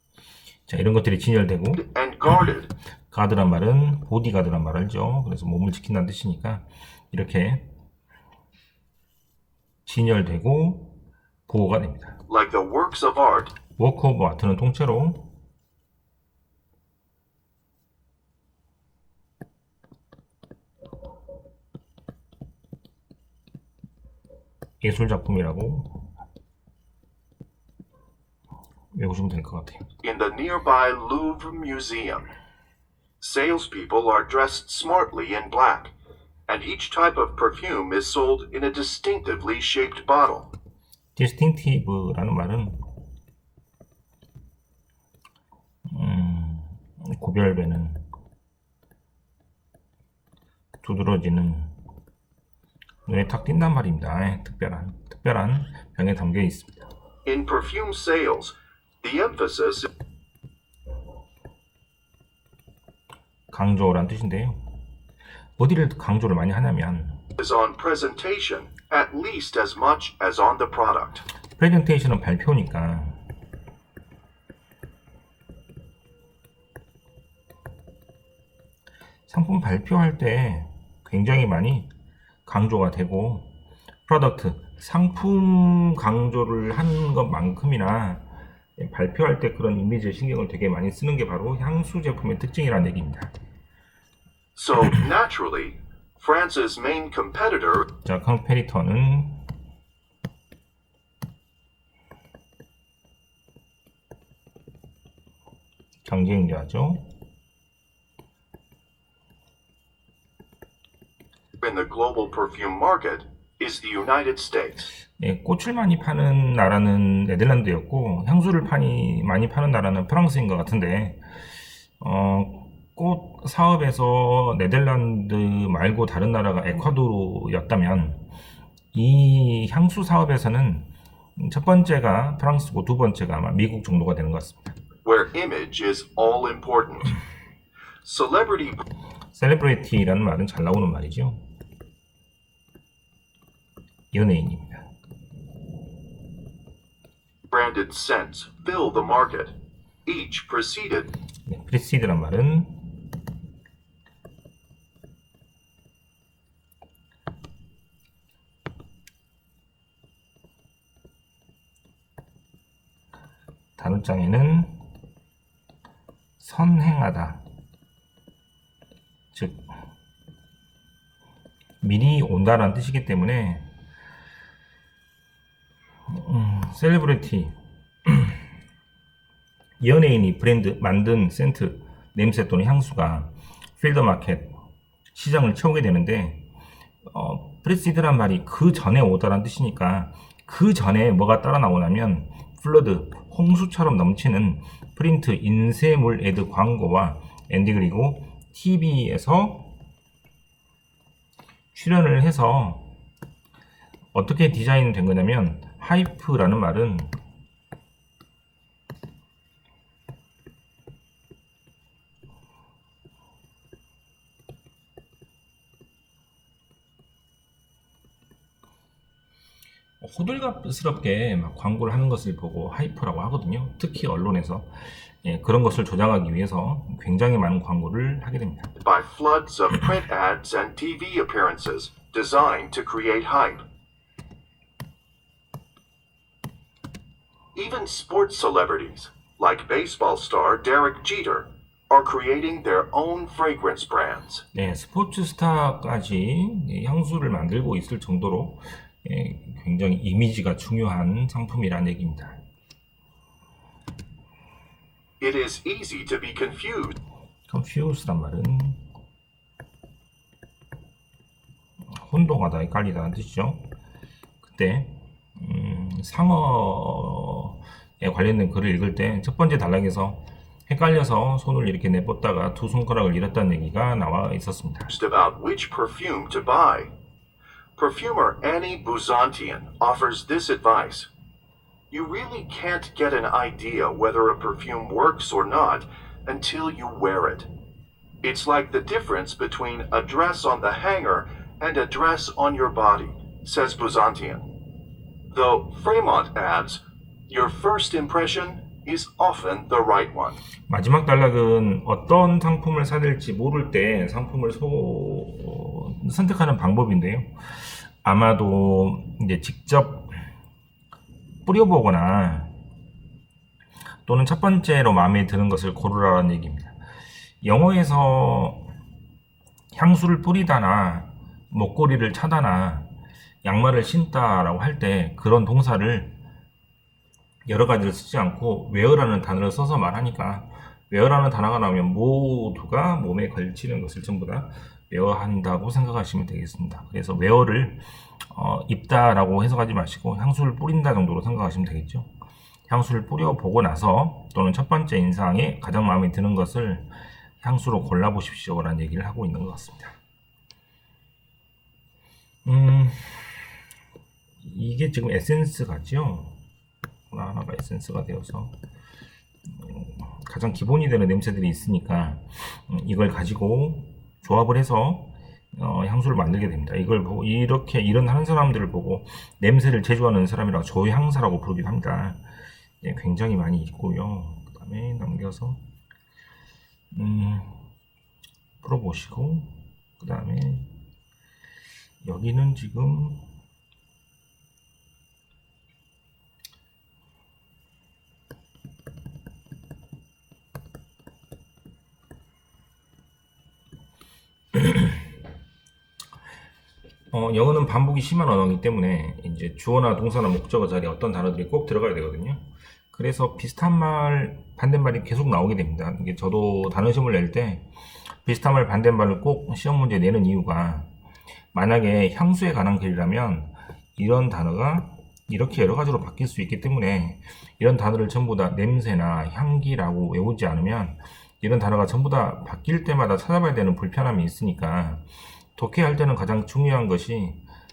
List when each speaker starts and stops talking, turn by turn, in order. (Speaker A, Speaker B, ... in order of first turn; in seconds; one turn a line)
Speaker A: 0.7-1.8
Speaker B: 1.7-2.7
Speaker A: 3.1-7.7
Speaker A: 9.9-12.2
Speaker B: 12.3-13.6
Speaker A: 13.8-15.3
Speaker A: 24.8-26.1
Speaker A: 28.9-29.8
Speaker B: 30.0-32.3
Speaker B: 33.2-35.9
Speaker B: 36.5-40.5
Speaker A: 41.1-42.9
Speaker A: 45.9-48.0
Speaker A: 50.8-51.8
Speaker A: 53.1-56.9
Speaker B: 57.2-59.9
Speaker A: 63.5-64.8
Speaker A: 65.6-67.2
Speaker B: 67.4-71.2
Speaker A: 71.6-73.2
Speaker A: 79.3-81.9
Speaker A: 82.5-83.5
Speaker A: 84.1-93.3
Speaker B: 94.5-97.9
Speaker A: 97.9-99.5
Speaker A: 106.0-107.1
Speaker B: 111.6-114.9
Speaker A: 115.2-121.5
Speaker A: 122.0-128.3
Speaker A: 128.9-134.8
Speaker B: 135.0-137.2
Speaker B: 138.1-138.8
Speaker A: 139.3-141.5
Speaker A: 144.1-144.9
Speaker B: 147.5-149.5
Speaker B: 150.1-151.1
Speaker A: 151.4-153.0
Speaker A: 163.8-164.8
Speaker A: 166.4-167.4
Speaker A: 169.3-169.7
Speaker A: 171.8-173.7
Speaker A: 176.1-178.4
Speaker A: 179.8-184.6
Speaker A: 185.1-186.4
Speaker A: 187.1-199.8
Speaker A: 201.7-202.9
Speaker A: 204.1-207.2
Speaker A: 220.0-228.7
Speaker B: 228.8-233.7
Speaker B: 237.6-244.4
Speaker A: 244.5-252.4
Speaker B: 255.2-257.0
Speaker A: 257.5-258.8
Speaker A: 261.9-263.7
Speaker A: 264.4-274.9
Speaker B: 274.9-276.9
Speaker B: 277.8-281.1
Speaker B: 281.9-287.5
Speaker B: 288.2-294.5
Speaker B: 295.3-300.4
Speaker A: 300.7-310.2
Speaker A: 311.4-312.5
Speaker A: 314.1-316.8
Speaker A: 317.4-318.7
Speaker A: 319.7-322.9
Speaker A: 323.4-326.2
Speaker A: 327.5-342.1
Speaker A: 342.7-346.9
Speaker A: 347.4-350.0
Speaker A: 352.4-353.6
Speaker A: 354.4-356.4
Speaker A: 357.1-358.6
Speaker A: 359.5-372.2
Speaker A: 372.8-375.6
Speaker A: 376.9-377.7
Speaker A: 378.6-380.7
Speaker A: 382.0-383.2
Speaker A: 394.5-395.1
Speaker A: 397.1-410.9
Speaker A: 411.5-427.4